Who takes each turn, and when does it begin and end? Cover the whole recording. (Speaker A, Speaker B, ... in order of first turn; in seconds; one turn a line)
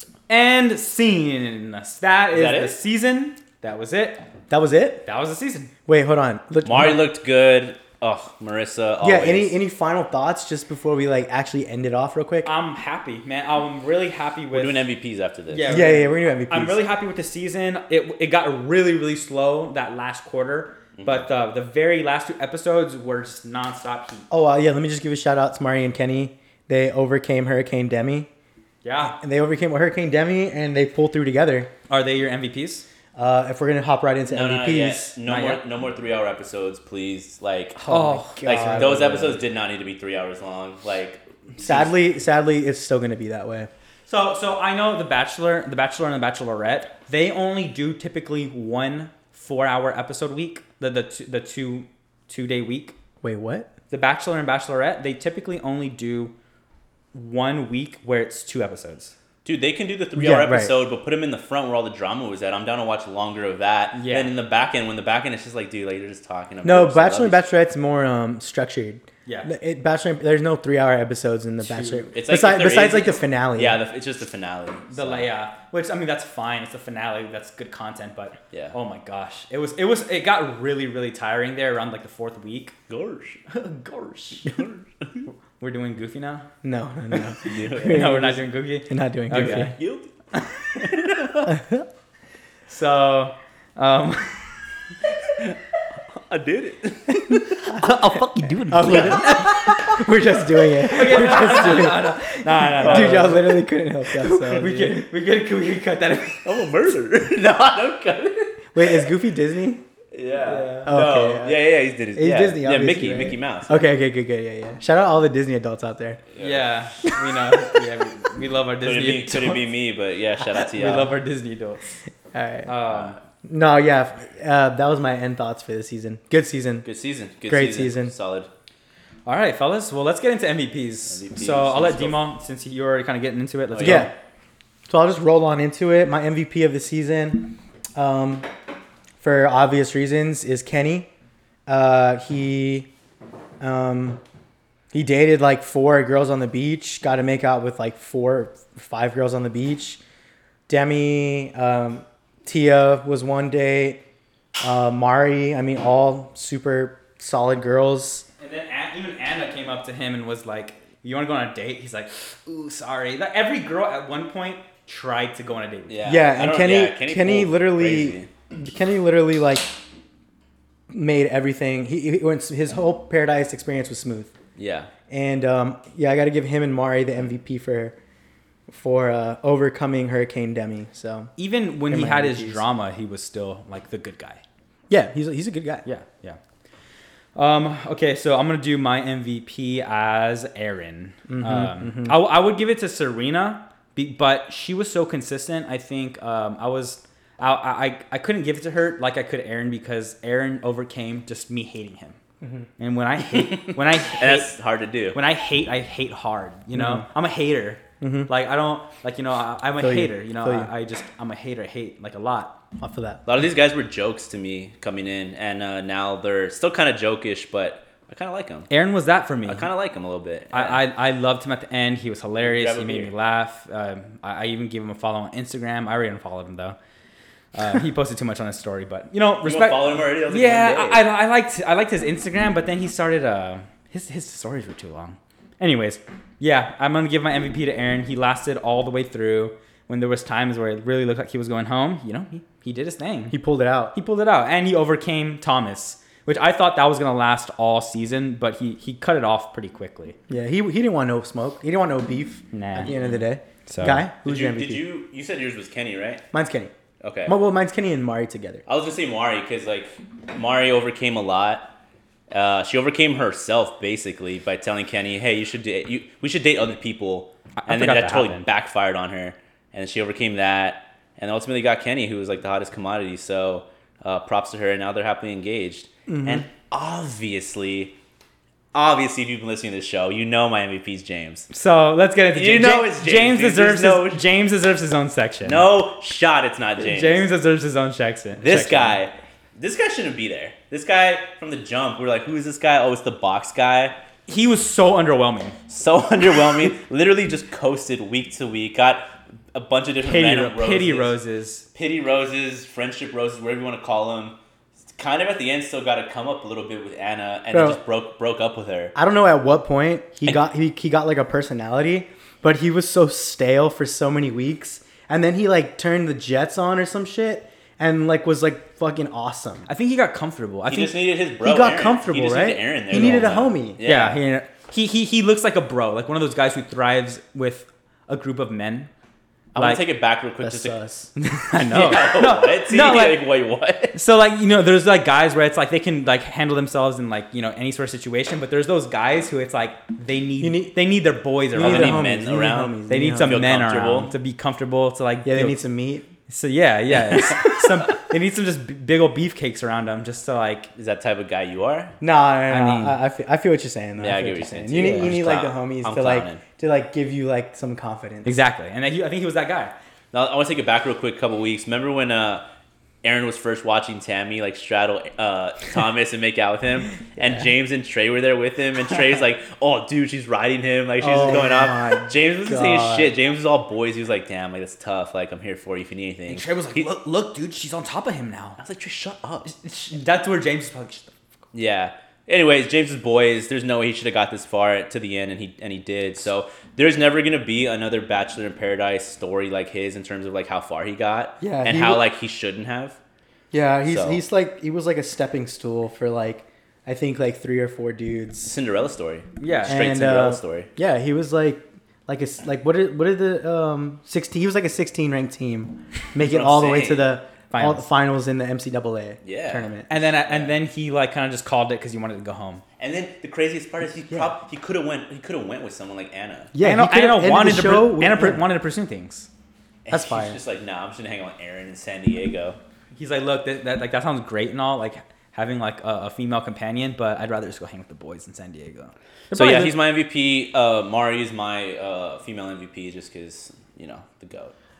Speaker A: 0.3-4.2
Speaker B: 2.3-2.8
Speaker C: 4.5-5.0
Speaker A: 5.0-5.7
Speaker C: 5.9-7.0
Speaker B: 6.6-9.6
Speaker C: 9.0-12.5
Speaker A: 12.4-14.9
Speaker B: 14.5-15.9
Speaker A: 15.5-24.3
Speaker C: 15.7-16.8
Speaker B: 21.0-21.2
Speaker C: 24.3-28.3
Speaker A: 28.8-29.2
Speaker C: 29.1-31.7
Speaker A: 31.9-32.9
Speaker C: 33.1-35.2
Speaker B: 34.3-41.9
Speaker A: 35.3-35.6
Speaker A: 37.8-39.0
Speaker C: 37.9-39.4
Speaker C: 41.6-43.7
Speaker A: 44.1-53.0
Speaker C: 53.2-53.7
Speaker A: 53.9-56.3
Speaker A: 57.1-59.1
Speaker B: 59.4-67.4
Speaker C: 60.1-60.7
Speaker A: 63.9-64.3
Speaker C: 66.6-73.8
Speaker A: 69.2-69.5
Speaker A: 71.6-72.1
Speaker B: 72.1-75.3
Speaker A: 74.9-82.7
Speaker B: 82.9-85.2
Speaker A: 85.6-86.5
Speaker C: 86.6-89.7
Speaker B: 87.4-88.2
Speaker A: 87.7-89.8
Speaker B: 89.3-90.1
Speaker A: 90.3-90.8
Speaker B: 90.8-91.5
Speaker C: 91.5-91.8
Speaker A: 92.7-94.4
Speaker B: 96.3-97.4
Speaker A: 97.5-100.0
Speaker C: 98.7-105.0
Speaker B: 98.8-99.4
Speaker A: 100.8-103.6
Speaker B: 102.7-103.4
Speaker A: 104.2-106.5
Speaker B: 106.4-109.1
Speaker C: 108.7-109.8
Speaker B: 110.1-113.8
Speaker A: 110.4-110.9
Speaker C: 110.8-116.2
Speaker B: 116.3-116.8
Speaker A: 116.4-119.6
Speaker B: 118.8-121.2
Speaker A: 120.6-122.0
Speaker C: 122.3-122.7
Speaker A: 122.7-123.2
Speaker B: 122.9-123.2
Speaker C: 123.4-126.8
Speaker B: 126.8-128.5
Speaker C: 127.5-128.1
Speaker A: 129.2-134.1
Speaker B: 131.1-132.2
Speaker B: 133.7-134.1
Speaker C: 133.8-134.1
Speaker C: 134.9-138.4
Speaker C: 139.2-141.1
Speaker C: 141.7-142.9
Speaker C: 143.6-144.2
Speaker C: 144.9-150.0
Speaker C: 150.7-154.0
Speaker C: 154.6-158.2
Speaker A: 158.4-166.0
Speaker B: 165.9-168.3
Speaker C: 166.0-169.7
Speaker C: 170.9-174.3
Speaker B: 174.6-174.9
Speaker C: 175.1-177.9
Speaker C: 178.7-181.3
Speaker A: 181.4-184.4
Speaker C: 181.9-182.6
Speaker C: 184.9-185.8
Speaker A: 185.8-186.4
Speaker A: 187.3-202.2
Speaker C: 191.3-192.2
Speaker A: 202.8-204.5
Speaker B: 203.3-205.2
Speaker A: 205.1-212.6
Speaker C: 206.7-207.1
Speaker C: 208.0-208.3
Speaker C: 209.8-210.7
Speaker C: 212.8-213.2
Speaker B: 213.2-218.7
Speaker A: 218.7-219.7
Speaker B: 219.4-220.8
Speaker A: 220.5-226.8
Speaker B: 222.4-223.1
Speaker A: 227.5-243.4
Speaker B: 229.4-231.1
Speaker C: 243.3-243.9
Speaker A: 243.9-250.2
Speaker C: 250.3-254.8
Speaker A: 252.5-253.0
Speaker A: 253.7-254.1
Speaker B: 254.2-256.2
Speaker C: 256.3-256.7
Speaker B: 257.0-257.4
Speaker C: 257.2-258.6
Speaker B: 258.7-261.7
Speaker B: 262.3-277.9
Speaker A: 267.6-268.4
Speaker C: 276.1-276.4
Speaker B: 278.7-281.5
Speaker A: 281.5-285.7
Speaker B: 282.3-284.3
Speaker B: 285.4-287.2
Speaker A: 286.8-289.0
Speaker B: 288.4-294.0
Speaker A: 294.3-295.6
Speaker B: 295.7-301.2
Speaker A: 300.0-301.6
Speaker B: 301.7-304.4
Speaker B: 304.9-308.9
Speaker C: 307.5-307.8
Speaker C: 308.9-319.7
Speaker A: 319.7-320.9
Speaker B: 320.7-324.2
Speaker C: 321.4-323.8
Speaker A: 323.8-328.9
Speaker B: 329.5-330.8
Speaker A: 329.6-329.8
Speaker C: 330.4-331.1
Speaker A: 331.1-333.2
Speaker B: 331.5-333.9
Speaker A: 333.9-342.1
Speaker C: 340.4-340.8
Speaker C: 341.5-343.4
Speaker B: 341.5-344.1
Speaker A: 342.9-345.6
Speaker C: 345.2-346.1
Speaker A: 346.3-350.7
Speaker B: 347.1-347.7
Speaker B: 350.8-351.9
Speaker C: 352.0-358.3
Speaker A: 352.5-353.0
Speaker B: 354.0-356.4
Speaker A: 354.8-355.1
Speaker A: 358.2-359.7
Speaker B: 360.1-362.4
Speaker B: 363.0-376.9
Speaker C: 371.0-373.1
Speaker A: 376.3-378.6
Speaker B: 378.6-379.5
Speaker A: 379.4-381.1
Speaker B: 381.5-393.0
Speaker C: 391.4-392.0
Speaker C: 393.5-398.5
Speaker B: 393.9-394.2
Speaker B: 398.4-400.7
Speaker A: 399.4-399.8
Speaker C: 399.7-409.9
Speaker B: 406.2-407.1
Speaker A: 407.5-407.9
Speaker B: 409.2-409.7
Speaker A: 409.9-412.6
Speaker B: 410.2-410.6
Speaker B: 412.8-416.5
Speaker C: 416.5-418.5
Speaker A: 416.6-419.3
Speaker B: 419.8-422.6
Speaker C: 419.9-420.4
Speaker A: 422.9-429.7
Speaker B: 429.3-434.5